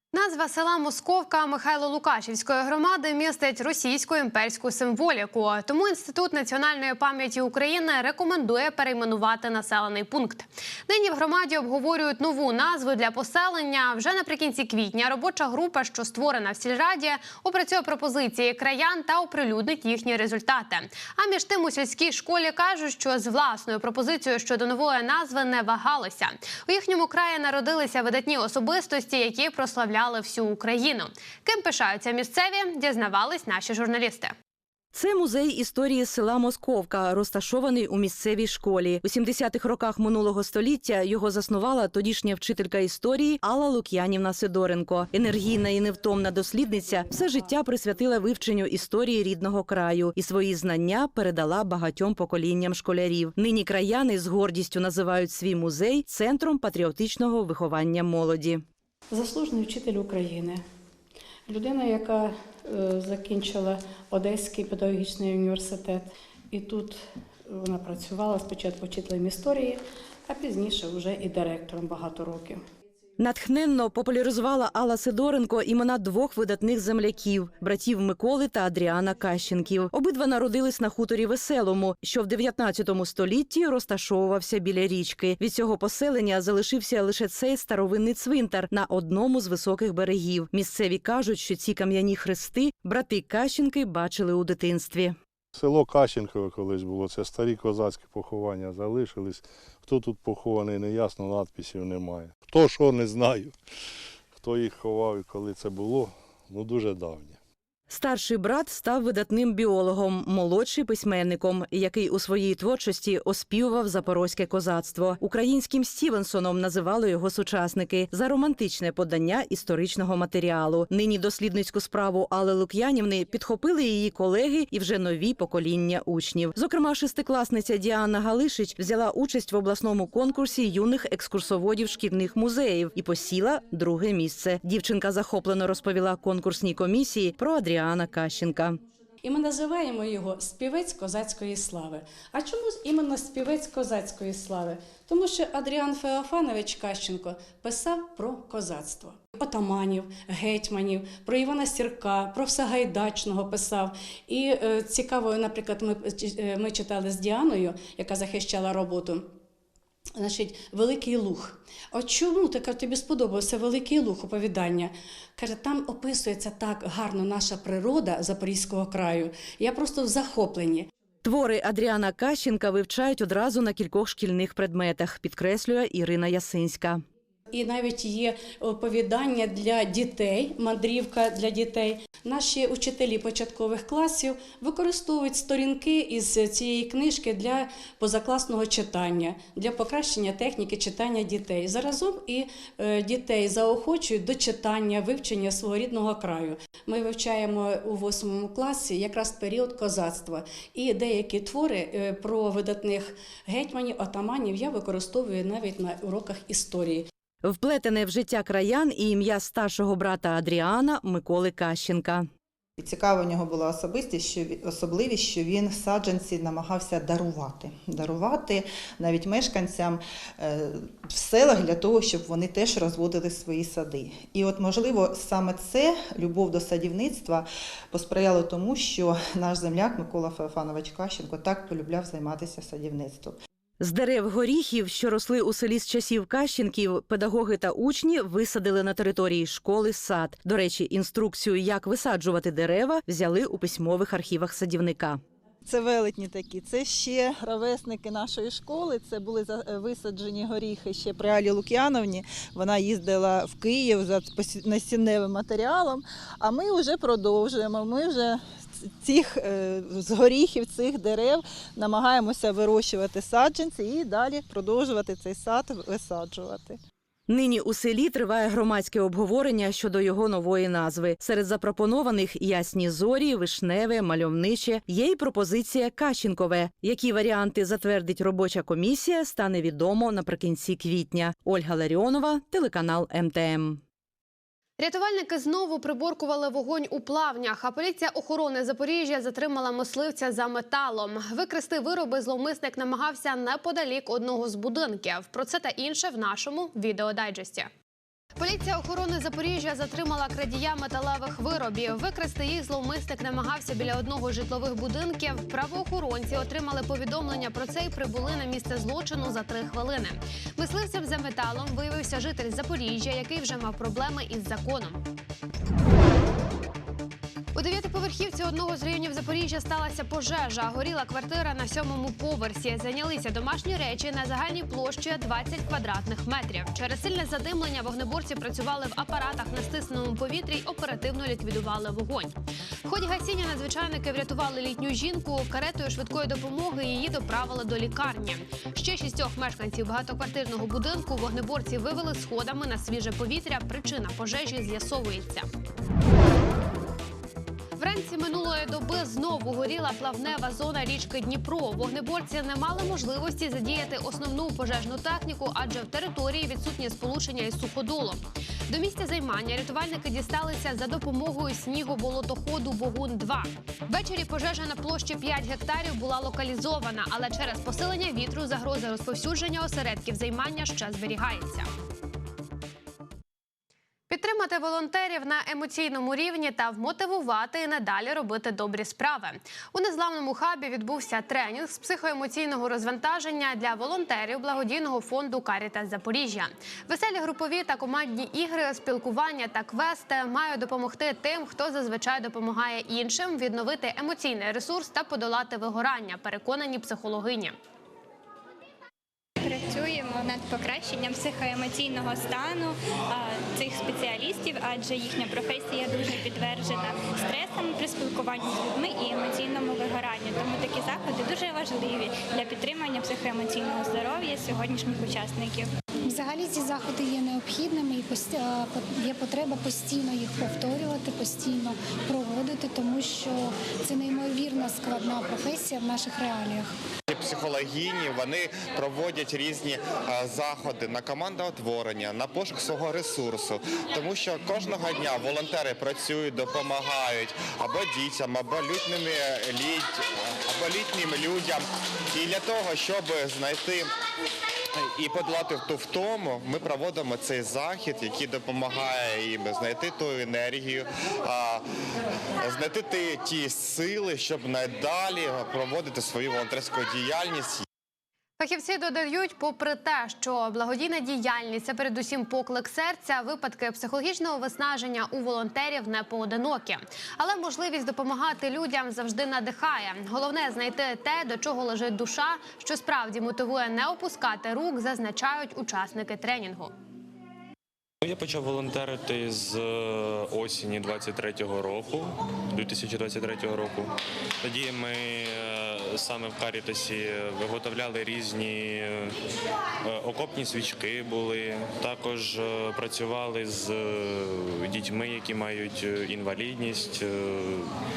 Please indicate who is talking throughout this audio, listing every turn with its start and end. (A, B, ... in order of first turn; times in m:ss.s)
0:00.1-0:34.3 A
0:34.9-0:58.6 B
0:59.1-1:00.6 C
1:01.5-1:12.6 C
1:13.2-1:35.2 B
1:35.6-1:43.6 D
1:44.3-1:47.4 D
1:47.9-2:18.8 B
2:19.2-2:39.4 C
2:40.2-2:50.9 C
2:51.2-2:57.0 B
2:57.5-3:27.1 C
3:27.4-3:32.3 B
3:32.8-3:53.4 E
3:53.8-4:05.2 B
4:27.3-4:43.8 B
4:44.8-4:57.7 A
4:58.4-5:15.0 A
5:17.6-5:32.3 A
5:32.9-5:45.5 A
5:47.8-6:11.7 A
6:14.1-6:37.6 A
6:39.4-6:55.7 F
6:56.0-7:06.7 G
7:07.1-7:23.9 H
7:24.8-7:31.6 H
7:32.4-7:37.6 H
7:38.4-7:56.7 A
7:58.0-8:09.2 I
8:09.8-8:17.7 I